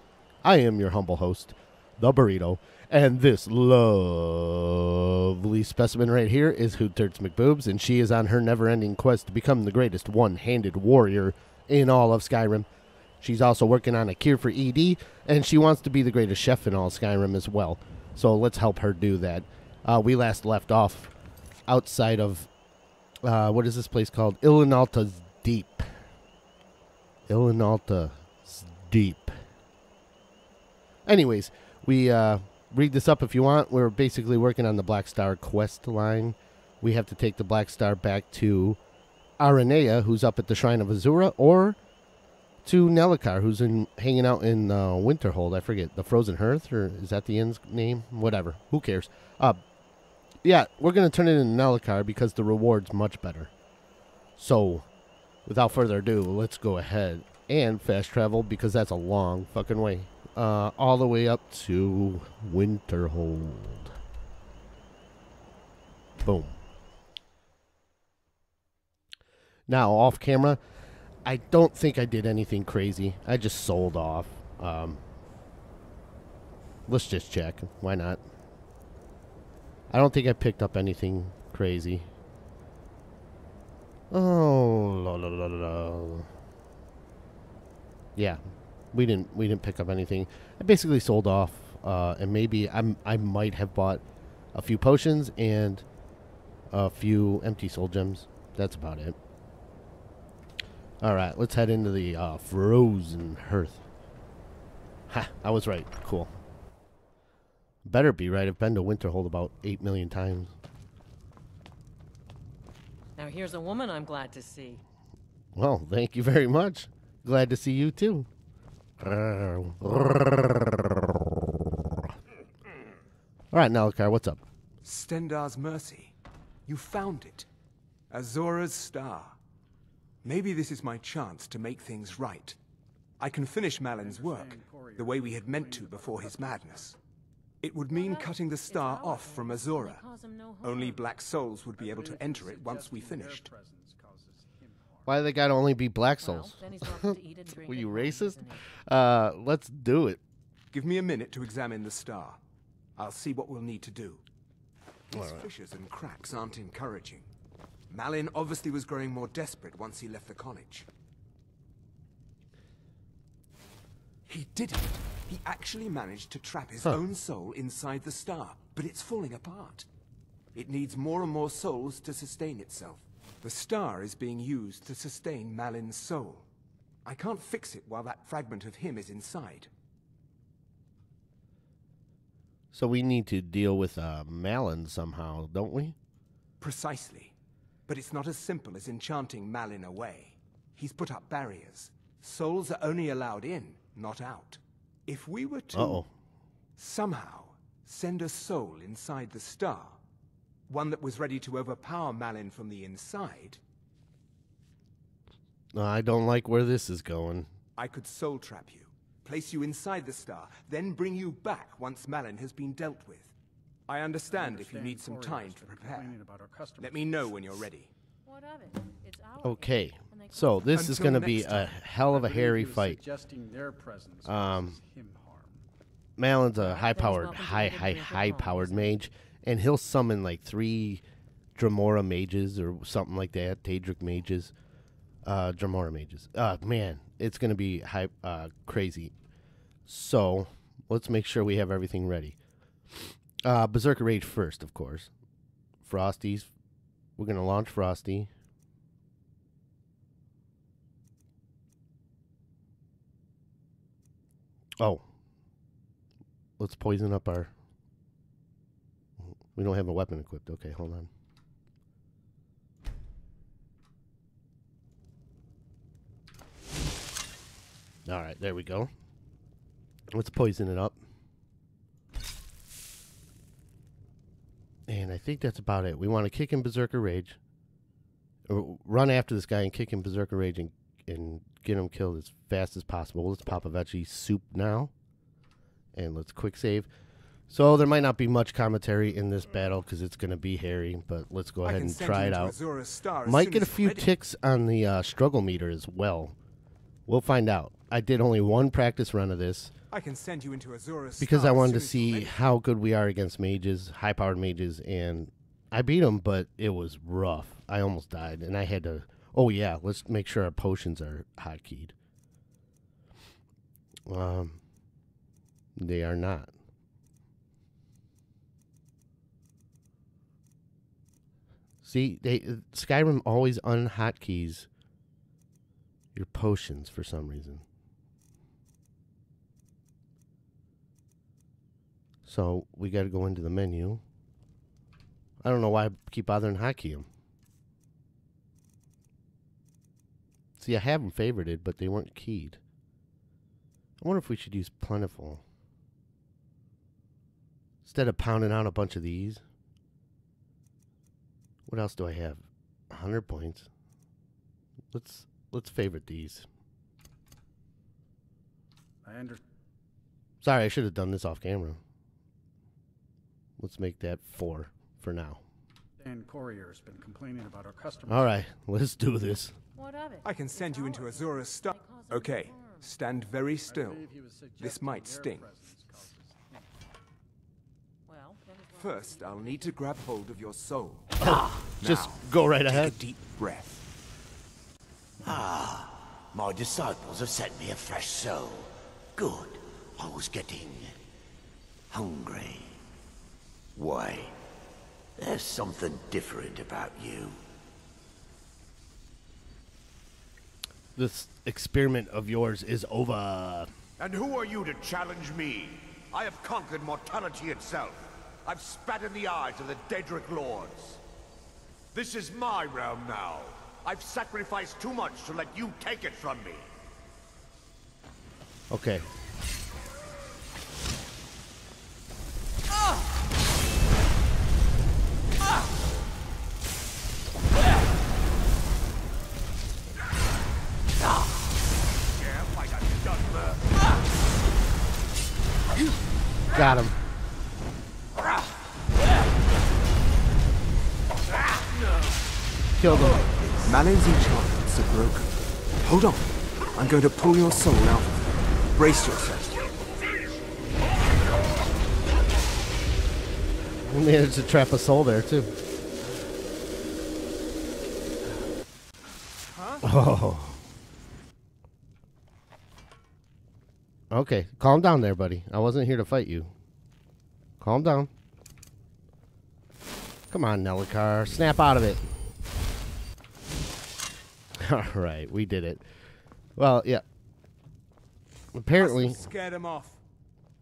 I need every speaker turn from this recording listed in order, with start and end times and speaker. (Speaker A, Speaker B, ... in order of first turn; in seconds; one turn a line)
Speaker A: 0.4-12.7
Speaker A: 13.2-21.1
Speaker A: 21.7-22.5
Speaker A: 23.2-25.9
Speaker A: 27.3-29.3
Speaker A: 31.1-38.8
Speaker A: 39.4-41.8
Speaker A: 42.6-49.6
Speaker A: 50.4-53.5
Speaker A: 54.4-54.9
Speaker A: 55.5-63.9
Speaker A: 66.2-66.6
Speaker A: 69.7-70.6
Speaker A: 71.2-75.0
Speaker A: 76.9-78.2
Speaker A: 79.9-82.1
Speaker A: 84.1-86.3
Speaker A: 88.2-88.4
Speaker A: 88.9-94.0
Speaker A: 94.5-95.8
Speaker A: 96.7-99.2
Speaker A: 101.0-103.8
Speaker A: 105.1-106.3
Speaker A: 107.8-110.5
Speaker B: 113.2-114.8
Speaker A: 115.5-118.3
Speaker A: 119.0-121.2
Speaker A: 123.5-124.4
Speaker C: 124.8-126.1
Speaker C: 126.7-127.5
Speaker C: 128.1-129.3
Speaker C: 130.2-132.6
Speaker C: 133.2-136.9
Speaker D: 133.9-136.9
Speaker C: 137.6-140.0
Speaker B: 137.9-141.1
Speaker C: 140.6-143.5
Speaker D: 141.8-145.3
Speaker A: 145.1-150.2
Speaker B: 146.2-148.7
Speaker C: 150.7-152.4
Speaker C: 152.9-154.2
Speaker A: 155.1-155.4
Speaker C: 155.1-157.3
Speaker C: 157.9-160.9
Speaker C: 164.3-169.9
Speaker C: 170.5-176.4
Speaker C: 177.0-179.7
Speaker A: 182.7-185.9
Speaker C: 186.6-187.3
Speaker C: 187.9-196.0
Speaker A: 195.7-196.1
Speaker C: 196.8-200.0
Speaker C: 200.7-203.6
Speaker A: 205.7-207.5
Speaker C: 207.8-213.3
Speaker C: 213.9-216.2
Speaker D: 214.3-217.7
Speaker C: 216.8-217.9
Speaker B: 218.2-220.9
Speaker A: 219.4-223.0
Speaker C: 220.7-221.7
Speaker D: 221.9-225.6
Speaker A: 224.2-224.8
Speaker A: 226.2-231.0
Speaker B: 226.6-229.0
Speaker A: 231.5-234.5
Speaker A: 235.2-239.1
Speaker A: 239.9-242.4
Speaker A: 243.4-245.1
Speaker A: 245.8-246.5
Speaker A: 247.2-248.3
Speaker A: 254.8-255.0
Speaker A: 256.6-257.5
Speaker A: 259.5-261.1
Speaker A: 268.1-268.9
Speaker A: 270.1-271.0
Speaker A: 274.9-277.4
Speaker A: 278.5-284.9
Speaker A: 285.9-286.9
Speaker A: 287.5-292.5
Speaker C: 291.6-294.1
Speaker A: 293.2-296.3
Speaker A: 297.1-299.7
Speaker C: 299.9-302.4
Speaker A: 301.2-311.9
Speaker A: 314.1-314.6
Speaker A: 315.8-316.5
Speaker A: 321.8-324.7
Speaker A: 326.1-327.6
Speaker A: 332.2-334.0
Speaker A: 335.4-337.1
Speaker A: 340.6-342.6
Speaker A: 344.0-345.4
Speaker A: 347.9-349.4
Speaker A: 351.7-353.7
Speaker A: 354.9-356.4
Speaker D: 359.0-359.4
Speaker A: 360.4-361.8
Speaker A: 363.6-365.4
Speaker D: 366.0-368.4
Speaker A: 368.1-369.5
Speaker B: 369.7-372.9
Speaker C: 370.2-375.5
Speaker D: 373.6-376.7
Speaker B: 378.1-379.8
Speaker C: 378.7-383.8
Speaker A: 381.2-382.9
Speaker E: 385.2-391.0
Speaker E: 391.9-392.8
Speaker E: 393.8-394.3
Speaker E: 395.2-397.4
Speaker A: 400.9-403.7
Speaker F: 404.0-411.0
Speaker F: 411.9-416.7
Speaker A: 418.7-419.0
Speaker F: 432.2-433.6
Speaker A: 436.5-436.9
Speaker A: 442.8-443.2
Speaker C: 443.6-445.3
Speaker C: 445.8-449.7
Speaker A: 453.8-455.5
Speaker A: 459.8-460.6
Speaker A: 464.1-466.5
Speaker A: 467.6-468.1
Speaker A: 470.3-472.0
Speaker A: 474.6-475.8
Speaker A: 476.6-477.0
Speaker A: 478.5-479.2
Speaker C: 478.7-480.0